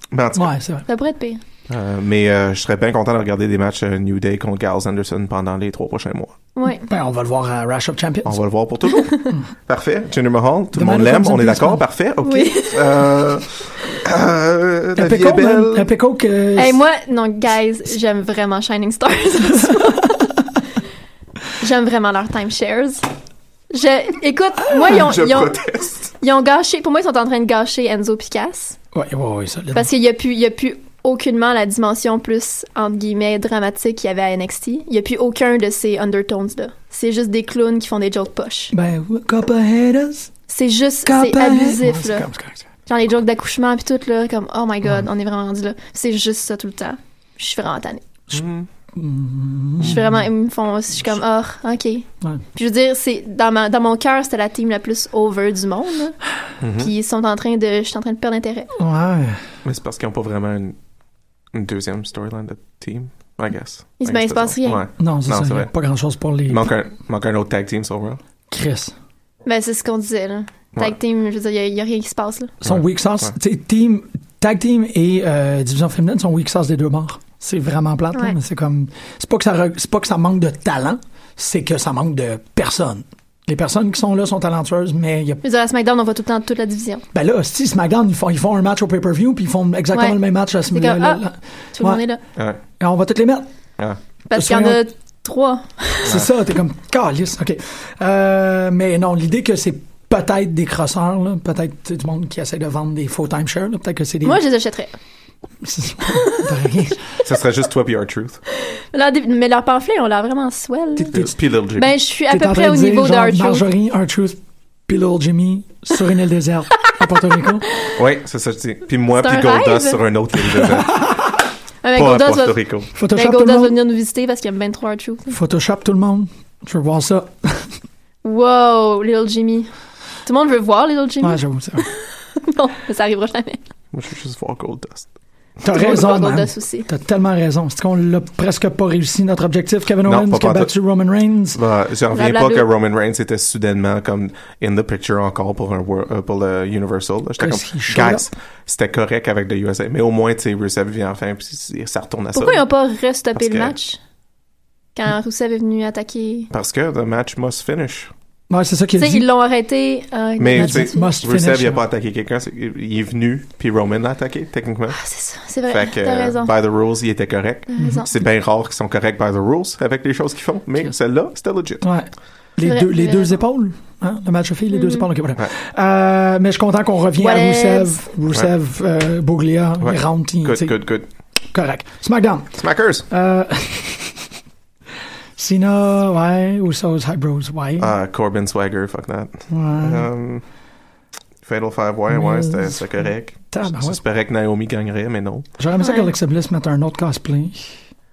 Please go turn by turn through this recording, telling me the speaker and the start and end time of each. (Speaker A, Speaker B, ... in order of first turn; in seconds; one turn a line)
Speaker A: 0.1-0.6
Speaker B: 0.3-0.8
Speaker C: 0.9-1.4
Speaker A: 1.7-6.3
Speaker C: 6.5-6.8
Speaker B: 6.8-8.5
Speaker A: 8.2-15.9
Speaker B: 10.7-11.8
Speaker C: 12.2-13.0
Speaker B: 14.9-16.8
Speaker C: 16.6-20.3
Speaker C: 21.6-23.0
Speaker C: 23.7-28.8
Speaker A: 24.8-26.1
Speaker B: 28.9-29.9
Speaker C: 29.7-38.7
Speaker B: 38.7-40.3
Speaker C: 40.5-42.3
Speaker B: 41.0-42.6
Speaker C: 42.9-48.0
Speaker A: 48.3-48.7
Speaker B: 48.9-50.1
Speaker C: 49.8-56.2
Speaker A: 56.6-56.9
Speaker C: 56.8-58.7
Speaker B: 58.8-59.4
Speaker A: 59.6-60.8
Speaker A: 61.5-65.7
Speaker C: 64.0-64.8
Speaker B: 65.0-66.7
Speaker A: 66.5-68.2
Speaker B: 68.5-68.9
Speaker C: 69.5-72.5
Speaker B: 72.6-85.4
Speaker A: 72.6-73.3
Speaker C: 85.4-87.0
Speaker B: 87.1-92.0
Speaker C: 89.9-90.2
Speaker C: 90.7-91.2
Speaker C: 91.8-92.2
Speaker A: 92.3-92.6
Speaker B: 92.8-93.5
Speaker C: 94.3-96.1
Speaker B: 94.3-94.8
Speaker B: 96.0-104.4
Speaker C: 104.2-104.9
Speaker B: 105.6-107.0
Speaker A: 107.2-108.4
Speaker C: 108.9-111.1
Speaker B: 111.0-111.3
Speaker A: 111.1-111.9
Speaker C: 111.7-113.7
Speaker B: 112.3-117.6
Speaker A: 118.0-121.0
Speaker C: 119.1-120.0
Speaker B: 120.7-121.2
Speaker C: 121.8-125.3
Speaker A: 121.9-122.9
Speaker B: 122.9-123.7
Speaker B: 125.3-127.7
Speaker C: 128.2-129.7
Speaker C: 130.2-133.6
Speaker B: 131.2-131.9
Speaker A: 133.9-135.1
Speaker B: 135.6-141.6
Speaker C: 135.7-136.9
Speaker A: 140.0-140.7
Speaker A: 141.5-152.6
Speaker C: 142.1-142.7
Speaker B: 147.4-148.3
Speaker C: 152.3-154.0
Speaker A: 153.3-153.7
Speaker C: 154.9-156.5
Speaker A: 156.5-158.1
Speaker B: 158.5-159.2
Speaker C: 159.0-161.1
Speaker A: 160.4-165.0
Speaker B: 160.5-161.8
Speaker C: 164.9-166.5
Speaker A: 165.7-171.8
Speaker C: 167.7-168.1
Speaker B: 171.8-180.8
Speaker C: 172.6-173.4
Speaker C: 174.7-175.1
Speaker C: 177.2-178.0
Speaker A: 179.8-181.1
Speaker B: 181.5-184.3
Speaker A: 182.6-183.1
Speaker B: 185.4-187.9
Speaker A: 187.8-190.4
Speaker B: 189.5-190.1
Speaker A: 191.4-195.5
Speaker B: 192.1-192.8
Speaker B: 193.5-194.0
Speaker B: 195.6-197.7
Speaker C: 195.8-196.1